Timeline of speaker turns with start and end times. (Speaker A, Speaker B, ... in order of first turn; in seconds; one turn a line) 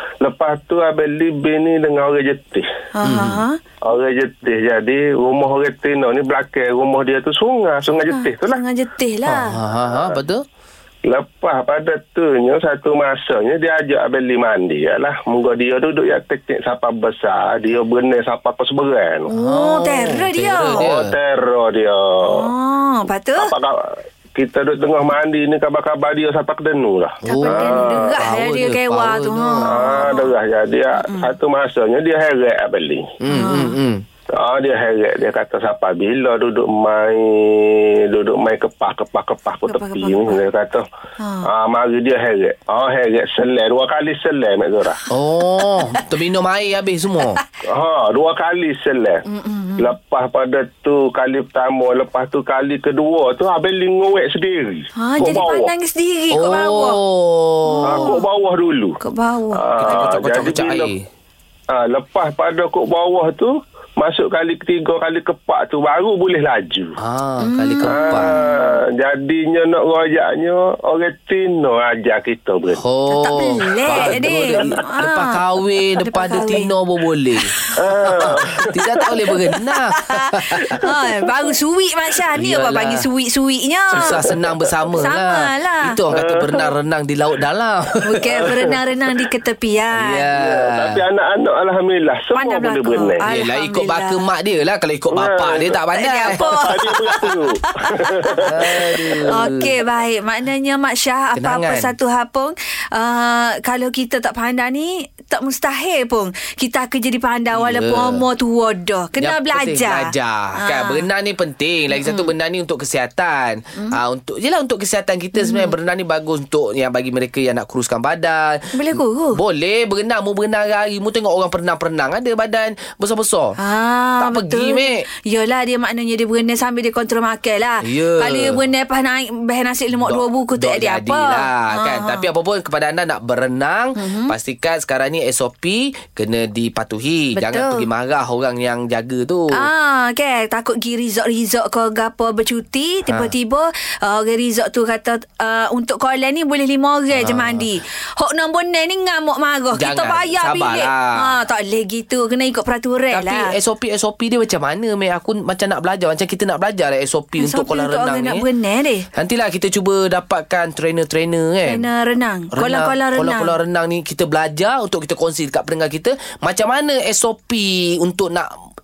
Speaker A: 0.2-2.7
Speaker B: 3.0-3.6
Speaker C: 3.0-3.4
Speaker A: 3.8-8.6
Speaker B: 8.1-9.6
Speaker C: 9.3-10.4
Speaker A: 9.9-10.2
Speaker A: 11.1-19.3
Speaker B: 19.3-20.8
Speaker C: 19.3-21.1
Speaker A: 20.8-22.5
Speaker B: 22.2-23.5
Speaker A: 23.4-28.2
Speaker B: 27.2-30.3
Speaker C: 27.2-30.1
Speaker A: 29.6-33.2
Speaker B: 31.0-31.3
Speaker C: 33.2-34.0
Speaker B: 33.3-33.8
Speaker A: 34.4-40.9
Speaker B: 39.7-40.4
Speaker B: 41.2-41.5
Speaker A: 41.4-45.0
Speaker C: 45.1-47.4
Speaker A: 47.7-49.2
Speaker B: 49.3-50.0
Speaker A: 49.8-55.7
Speaker B: 55.0-57.0
Speaker C: 56.3-58.2
Speaker B: 57.6-58.2
Speaker A: 57.8-59.0
Speaker B: 59.0-60.1
Speaker A: 59.6-60.9
Speaker C: 59.8-61.0
Speaker A: 61.7-67.0
Speaker C: 67.0-68.4
Speaker B: 67.4-68.8
Speaker A: 67.8-72.8
Speaker C: 72.8-77.5
Speaker B: 73.1-76.7
Speaker A: 73.9-74.3
Speaker B: 77.4-78.3
Speaker A: 77.8-79.1
Speaker C: 78.0-80.8
Speaker B: 79.0-84.3
Speaker A: 80.7-81.4
Speaker C: 82.4-83.1
Speaker C: 83.9-88.5
Speaker A: 84.3-84.7
Speaker B: 85.0-86.0
Speaker A: 86.1-86.7
Speaker B: 88.0-90.3
Speaker A: 88.3-88.8
Speaker C: 90.0-91.0
Speaker A: 90.3-93.2
Speaker B: 92.3-94.2
Speaker C: 93.2-97.2
Speaker A: 95.1-99.5
Speaker B: 95.9-111.0
Speaker C: 98.4-99.7
Speaker C: 101.4-101.9
Speaker C: 107.5-108.2
Speaker C: 109.2-123.6
Speaker B: 111.9-112.3
Speaker B: 115.3-115.7
Speaker B: 118.7-119.4
Speaker B: 123.6-132.3
Speaker C: 124.2-125.0
Speaker C: 127.8-128.6
Speaker C: 130.0-139.7
Speaker B: 134.0-134.3
Speaker B: 137.3-137.9
Speaker B: 139.5-153.5
Speaker C: 147.2-147.6
Speaker C: 149.7-151.3
Speaker C: 153.1-158.4
Speaker B: 157.4-159.1
Speaker C: 159.2-161.9
Speaker B: 161.7-163.6
Speaker C: 162.5-168.5